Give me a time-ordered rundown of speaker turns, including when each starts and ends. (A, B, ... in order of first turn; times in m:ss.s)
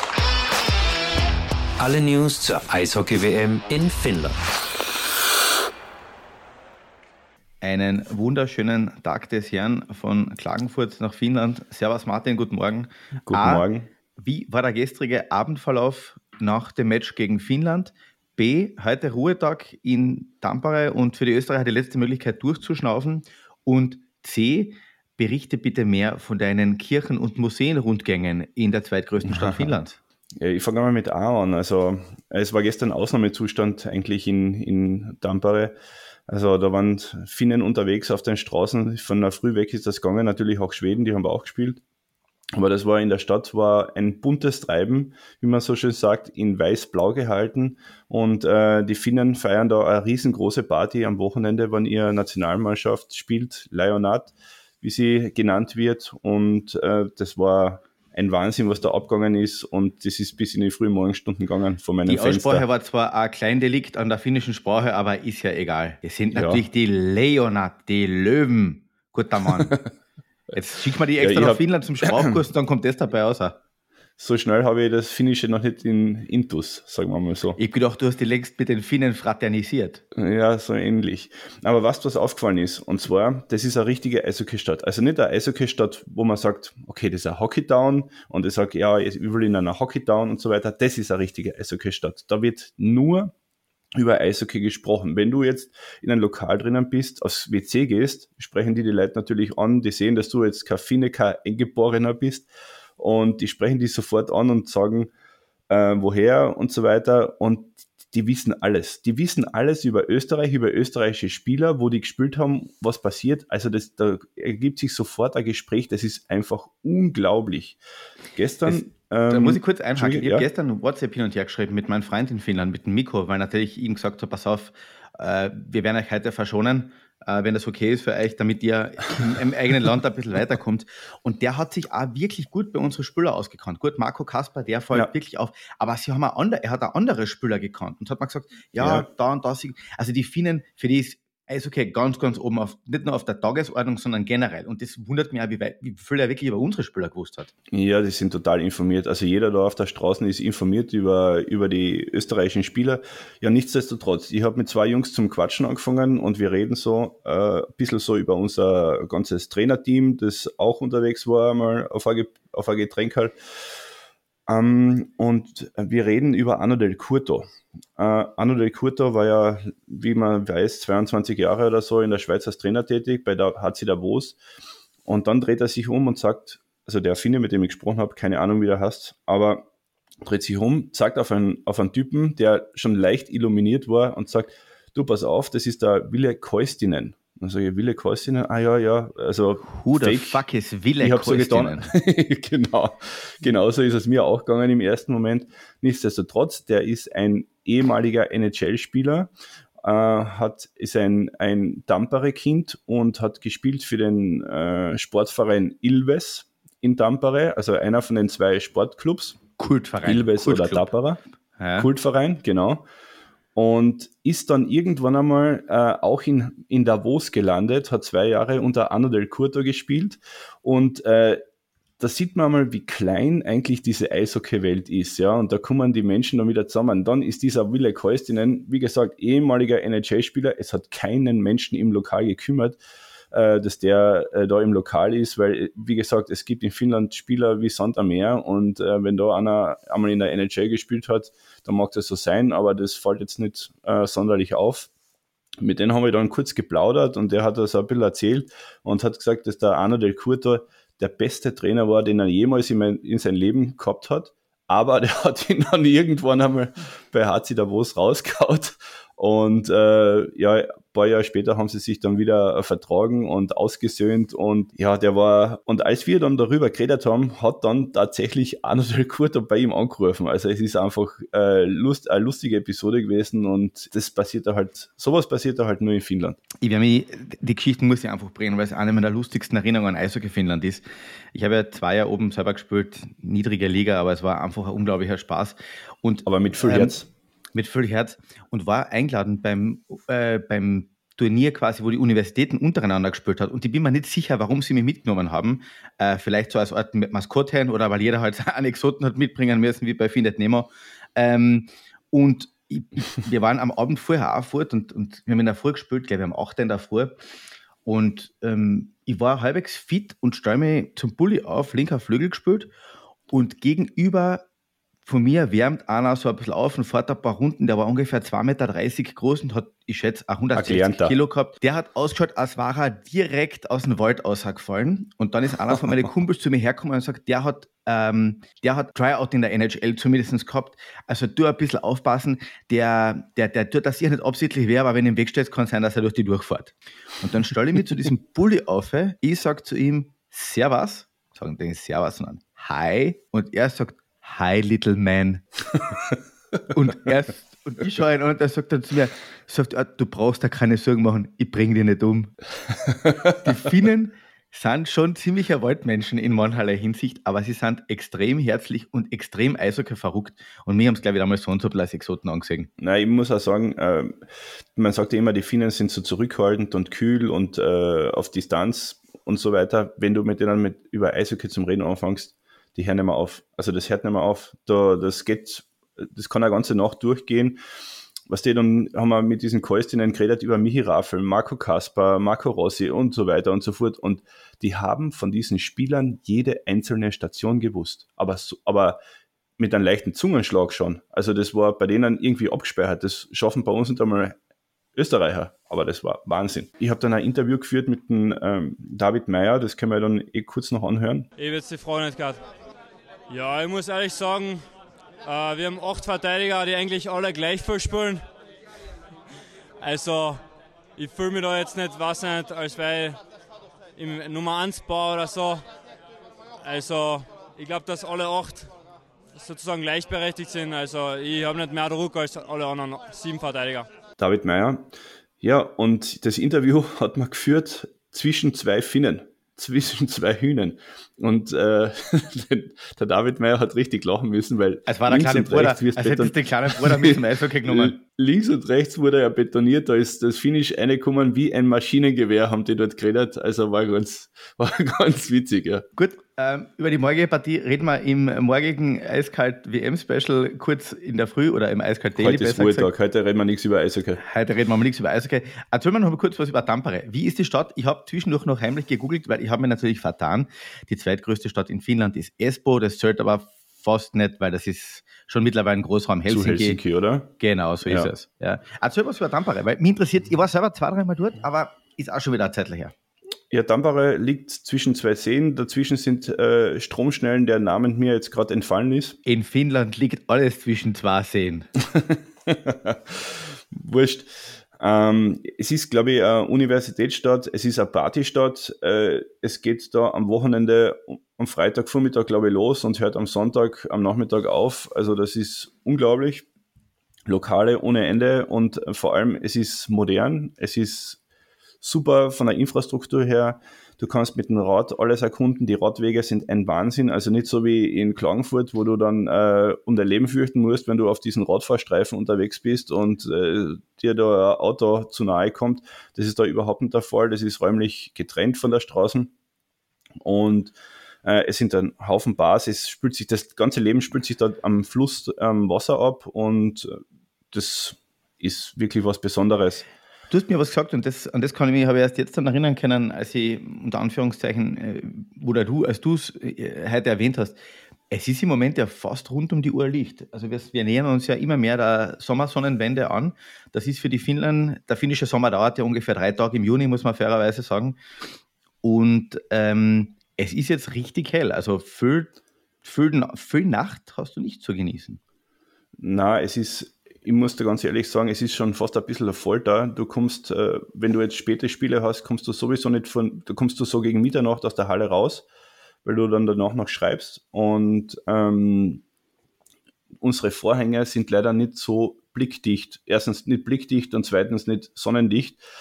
0:01.8-0:04.4 A
0:07.6-0:13.7 B
0:13.2-0:13.9 C
0:14.2-0:30.0 B
0:29.2-0:29.7 C
0:30.4-0:35.7 C
0:36.3-0:41.8 C
0:42.6-1:02.7 C
1:02.1-1:09.8 B
1:06.3-1:06.6 C
1:09.6-1:09.9 C
1:10.5-1:13.6 B
1:11.2-1:12.4 C
1:14.2-1:17.6 C
1:17.6-1:20.0 B
1:20.2-1:33.3 C
1:34.0-1:42.5 C
1:43.0-1:45.1 C
1:45.7-1:57.8 C
1:58.4-2:00.5 C
1:58.7-2:27.5 B
2:18.8-2:19.1 C
2:27.7-2:43.3 C
2:44.5-2:54.4 C
2:55.1-2:59.7 C
3:00.2-3:10.4 C
3:09.6-3:11.9 B
3:11.0-3:19.3 C
3:19.8-3:29.4 C
3:29.6-3:30.9 B
3:30.0-3:31.2 C
3:31.6-3:31.9 B
3:31.8-3:32.9 C
3:33.6-3:41.4 C
3:42.0-3:52.8 C
3:53.3-4:04.9 C
4:05.6-4:36.4 C
4:36.6-4:47.0 B
4:46.3-4:47.1 C
4:47.5-5:07.2 B
5:07.8-5:12.7 B
5:13.3-5:14.5 B
5:15.0-5:45.4 B
5:20.6-5:21.2 C
5:46.7-5:52.3 B
5:53.3-6:02.7 B
6:02.8-6:04.2 C
6:04.8-6:17.6 C
6:18.3-6:29.0 C
6:29.6-6:34.4 C
6:35.0-6:41.3 C
6:41.4-6:42.4 D
6:43.3-6:44.6 D
6:45.2-6:48.2 D
6:49.8-6:50.4 D
6:51.0-6:53.2 D
6:54.0-6:55.6 D
6:56.6-6:58.7 D
6:59.3-7:03.9 D
7:04.2-7:25.8 C
7:14.9-7:18.0 B
7:26.0-7:32.9 B
7:32.2-7:34.2 C
7:34.2-7:46.8 B
7:46.3-7:47.3 C
7:47.4-7:52.9 B
7:47.9-7:48.1 C
7:53.5-7:59.2 C
7:59.2-8:01.7 B
8:01.9-8:16.5 C
8:17.3-8:21.2 C
8:21.8-8:39.3 C
8:40.2-8:47.0 C
8:47.5-8:49.8 C
8:50.3-8:57.6 B
8:58.1-9:08.0 B
9:08.8-9:15.2 B
9:16.0-9:25.5 C
9:26.0-9:29.0 C
9:30.2-9:35.6 C